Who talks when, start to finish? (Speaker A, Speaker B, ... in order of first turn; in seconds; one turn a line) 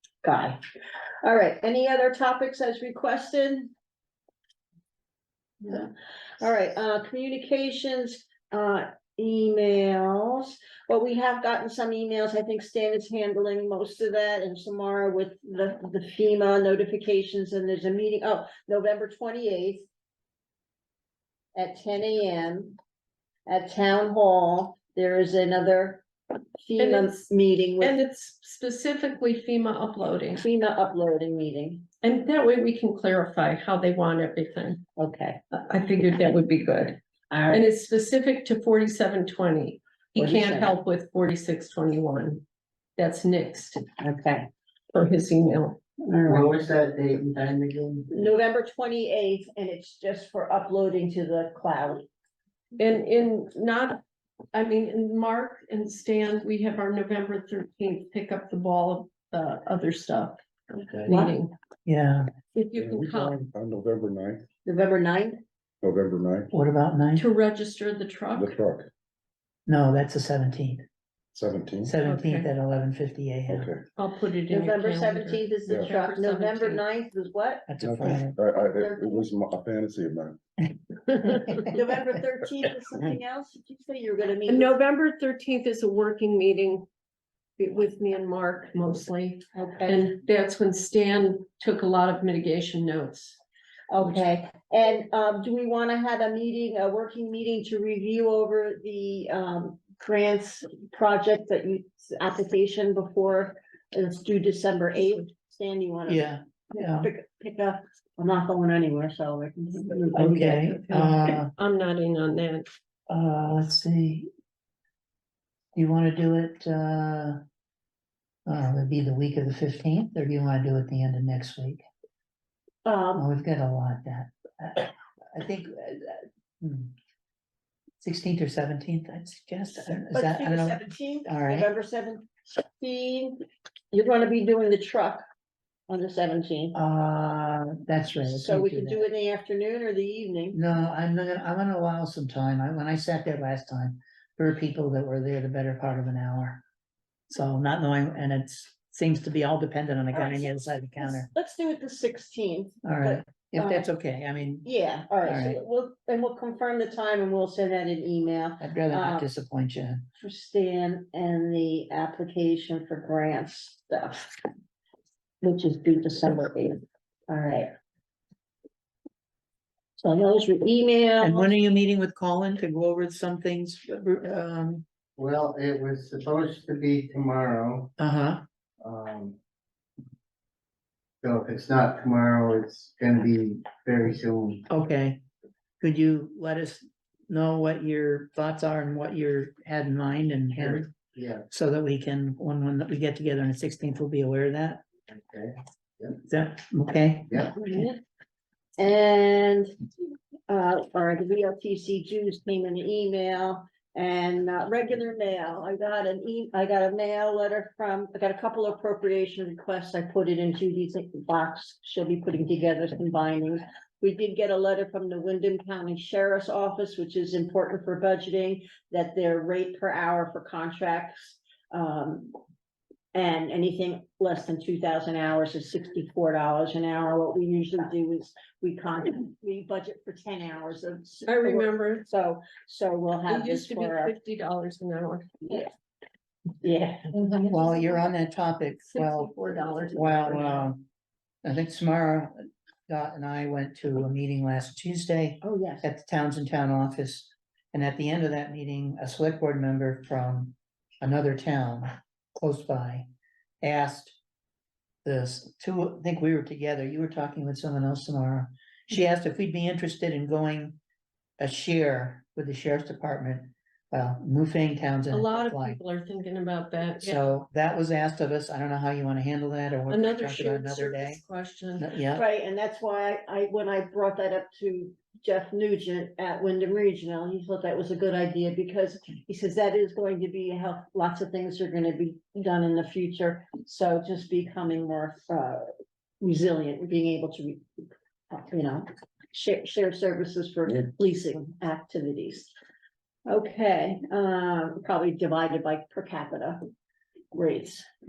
Speaker A: 0.2-0.6
Speaker A: 1.2-3.7
Speaker A: 5.6-19.9
Speaker A: 21.6-22.8
Speaker A: 23.5-26.1
Speaker A: 26.6-28.0
Speaker B: 26.8-30.4
Speaker A: 30.3-31.9
Speaker B: 32.0-34.8
Speaker A: 35.0-35.4
Speaker B: 35.5-42.4
Speaker A: 37.3-37.7
Speaker A: 40.2-40.7
Speaker B: 43.0-43.8
Speaker A: 44.0-44.5
Speaker B: 44.9-45.8
Speaker A: 46.0-46.5
Speaker C: 46.3-48.3
Speaker A: 48.1-52.1
Speaker B: 52.8-54.0
Speaker B: 54.5-61.5
Speaker A: 61.1-61.4
Speaker D: 61.9-62.3
Speaker B: 62.5-63.5
Speaker E: 62.8-64.5
Speaker A: 64.7-65.4
Speaker E: 65.8-66.5
Speaker D: 66.5-67.3
Speaker B: 67.2-68.6
Speaker E: 68.3-68.9
Speaker D: 69.7-70.8
Speaker E: 71.3-72.0
Speaker D: 71.8-73.7
Speaker B: 72.0-72.5
Speaker E: 73.5-73.8
Speaker B: 74.0-76.8
Speaker A: 74.5-77.7
Speaker D: 77.7-78.4
Speaker E: 77.8-80.4
Speaker A: 78.8-79.3
Speaker B: 81.1-81.7
Speaker A: 81.7-84.8
Speaker B: 84.5-86.9
Speaker B: 87.6-93.4
Speaker A: 89.5-90.1
Speaker A: 93.9-110.8
Speaker D: 106.1-107.1
Speaker B: 110.1-112.7
Speaker D: 110.2-111.5
Speaker D: 113.1-114.3
Speaker D: 115.8-117.4
Speaker D: 118.5-121.8
Speaker A: 122.8-123.3
Speaker D: 123.2-126.9
Speaker D: 128.0-131.7
Speaker A: 129.8-135.2
Speaker A: 135.9-136.8
Speaker D: 136.8-139.1
Speaker A: 138.2-140.6
Speaker D: 140.5-146.6
Speaker D: 147.3-151.3
Speaker A: 150.1-153.9
Speaker D: 152.8-154.7
Speaker A: 154.7-159.3
Speaker D: 155.2-155.6
Speaker D: 158.6-160.1
Speaker A: 160.2-164.4
Speaker A: 165.4-167.7
Speaker A: 170.0-171.5
Speaker D: 171.2-174.8
Speaker C: 175.2-177.9
Speaker D: 178.0-178.4
Speaker C: 178.8-179.4
Speaker C: 181.2-184.7
Speaker D: 184.7-185.2
Speaker D: 185.8-190.9
Speaker C: 190.6-191.4
Speaker D: 191.5-194.8
Speaker C: 195.1-196.2
Speaker D: 196.2-197.7
Speaker A: 197.6-198.0
Speaker A: 198.8-199.8
Speaker A: 200.5-222.4
Speaker A: 223.1-234.1
Speaker B: 231.3-232.1
Speaker B: 233.3-235.5
Speaker A: 235.4-235.7
Speaker A: 236.6-237.7
Speaker D: 237.4-239.3
Speaker B: 238.9-240.7
Speaker D: 239.9-240.9
Speaker D: 241.4-242.3
Speaker D: 242.9-253.1
Speaker A: 245.4-245.9
Speaker D: 253.6-254.2
Speaker D: 255.0-260.8
Speaker D: 261.4-265.8
Speaker B: 265.1-267.2
Speaker D: 267.0-271.2
Speaker B: 269.9-271.9
Speaker D: 271.8-272.2
Speaker A: 272.1-287.6
Speaker A: 288.3-292.5
Speaker A: 293.3-296.6
Speaker A: 297.3-297.9